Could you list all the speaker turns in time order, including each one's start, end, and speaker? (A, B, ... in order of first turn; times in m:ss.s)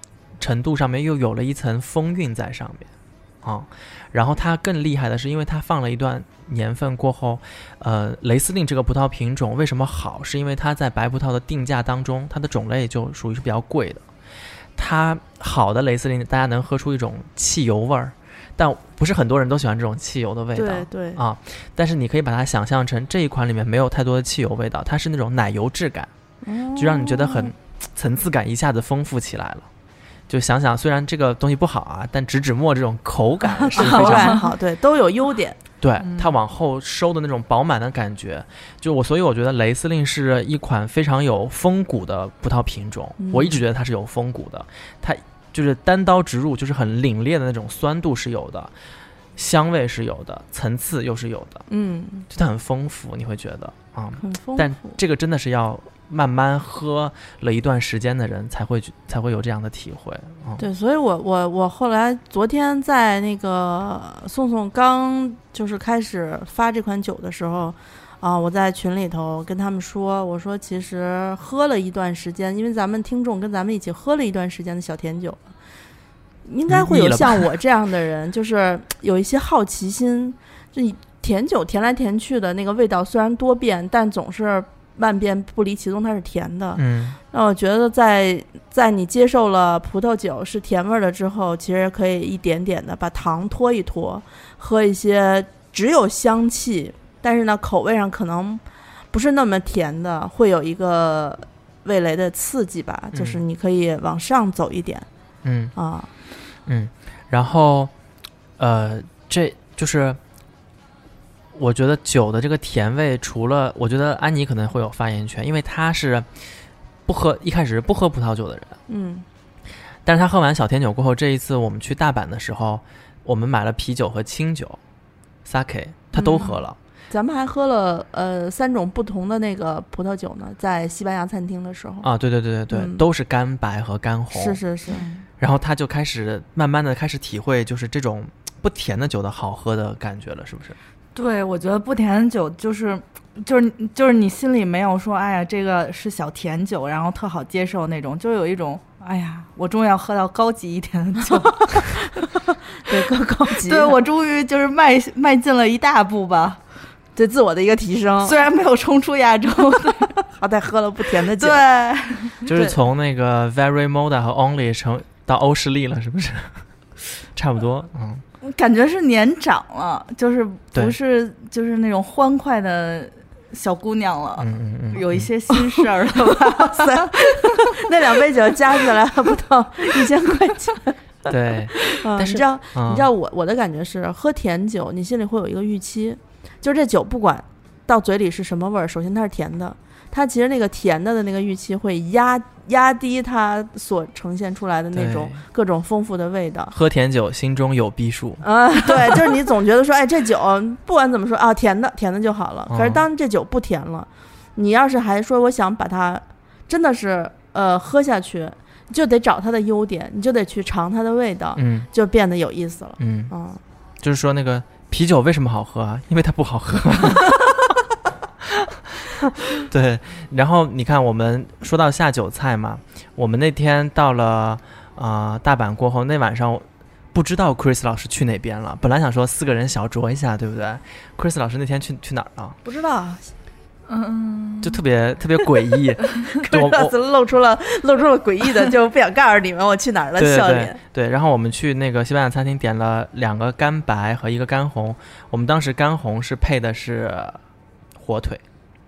0:00.4-0:02.9 A
0:03.4-0:14.0 A
0:14.8-0:26.1 A
0:20.6-0:21.2 B
0:26.4-0:27.5 B
0:26.8-0:29.7 A
0:30.3-0:34.4 A
0:33.6-0:35.6 B
0:33.7-0:34.5 C
0:35.8-0:48.7 A
0:36.0-0:36.4 C
0:43.2-0:43.6 B
0:49.4-0:51.6 A
0:51.7-0:52.3 B
0:52.3-1:00.6 A
0:54.2-0:55.0 B
1:00.6-1:15.4 B
1:16.4-1:45.1 B
1:16.7-1:17.4 A
1:26.8-1:27.2 A
1:43.1-1:43.4 A
1:45.4-1:45.7 A
1:45.8-1:46.1 B
1:46.7-1:47.9 A
1:48.6-1:50.2 A
1:51.5-1:56.3 A
1:57.1-1:58.8 A
1:58.9-1:59.3 B
2:00.0-2:04.8 A
2:05.4-2:06.8 A
2:06.1-2:12.1 B
2:12.0-2:14.6 A
2:12.7-2:13.0 B
2:14.3-2:15.0 B
2:14.9-2:15.2 C
2:15.4-2:20.8 A
2:21.2-2:32.2 C
2:32.8-2:34.0 B
2:33.6-2:36.6 C
2:37.2-2:38.4 B
2:38.2-2:40.2 C
2:40.3-2:41.6 B
2:41.4-2:42.5 C
2:42.5-2:46.6 A
2:47.3-2:48.2 A
2:48.4-2:57.6 C
2:54.4-2:55.3 A
2:55.5-2:55.8 B
2:56.6-3:01.0 B
3:01.3-3:03.1 A
3:01.9-3:16.8 B
3:14.9-3:15.4 A
3:16.7-3:19.2 A
3:18.4-3:33.6 B
3:22.7-3:23.0 A
3:31.6-3:31.9 A
3:33.0-3:33.3 A
3:34.0-3:37.7 A
3:38.5-3:52.6 A
3:52.6-3:53.3 B
3:53.9-3:54.8 C
3:54.6-3:56.9 A
3:56.4-4:00.8 B
4:00.2-4:07.4 A
4:08.0-4:08.4 A